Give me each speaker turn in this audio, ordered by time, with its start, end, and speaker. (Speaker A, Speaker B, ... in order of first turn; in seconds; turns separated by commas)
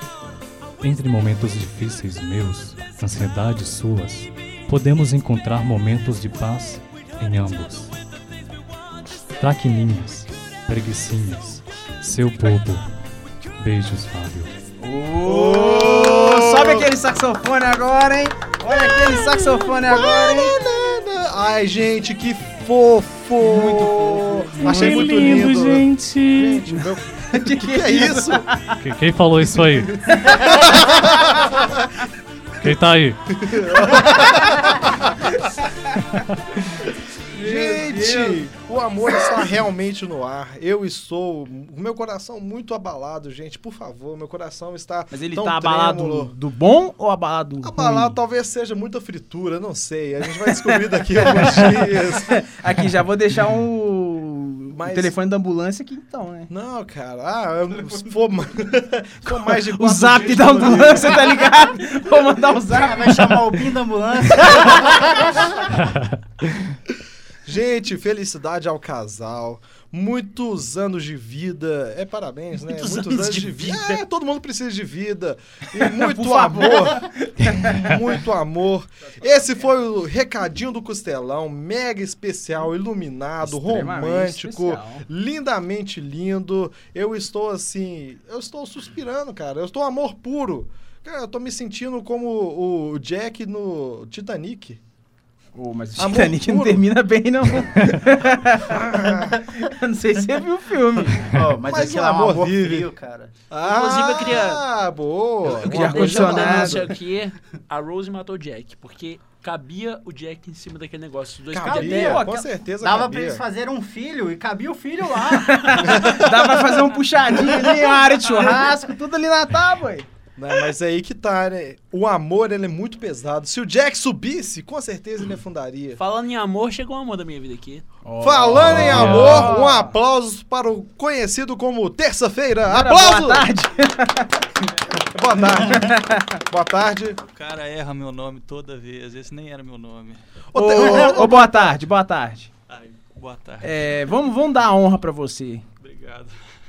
Speaker A: 0.8-7.9, Speaker A: 9.4-12.9, Speaker A: 13.6-14.5, Speaker B: 14.8-20.6, Speaker C: 15.2-16.9, Speaker C: 18.6-28.5, Speaker B: 23.4-25.3, Speaker A: 24.6-26.7, Speaker B: 27.3-28.8, Speaker A: 28.8-30.1, Speaker B: 30.1-31.5, Speaker C: 30.1-31.9, Speaker A: 32.6-33.4, Speaker C: 33.4-35.3, Speaker B: 34.1-34.6, Speaker B: 35.2-36.2, Speaker B: 37.3-38.4, Speaker C: 37.4-46.4, Speaker B: 45.1-48.1, Speaker C: 47.6-52.4, Speaker B: 51.2-56.5, Speaker C: 54.7-55.1, Speaker C: 56.5-61.6, Speaker B: 59.3-63.4, Speaker D: 62.7-65.6, Speaker A: 65.8-66.2, Speaker C: 67.5-94.8, Speaker E: 72.6-74.0, Speaker B: 75.8-78.1, Speaker B: 83.4-85.0, Speaker B: 95.6-98.8, Speaker C: 96.0-96.9, Speaker C: 98.5-99.5, Speaker B: 99.6-101.3, Speaker D: 101.0-103.3, Speaker C: 101.3-102.9, Speaker C: 103.5-106.9, Speaker E: 103.6-104.6, Speaker B: 105.5-106.8, Speaker E: 105.5-112.2, Speaker C: 111.5-113.4, Speaker D: 111.6-112.2, Speaker B: 111.9-112.4, Speaker D: 112.8-116.2, Speaker B: 115.4-120.1, Speaker C: 115.9-116.5, Speaker D: 117.4-118.8, Speaker C: 120.4-126.0, Speaker E: 126.0-127.9, Speaker B: 128.1-130.0, Speaker C: 128.2-133.5, Speaker A: 128.6-129.6, Speaker B: 132.7-134.4, Speaker C: 135.0-137.2, Speaker B: 135.7-136.4, Speaker F: 137.2-140.2, Speaker C: 140.5-141.8, Speaker B: 140.6-142.5, Speaker F: 142.7-144.0, Speaker B: 143.6-145.7, Speaker F: 145.8-146.3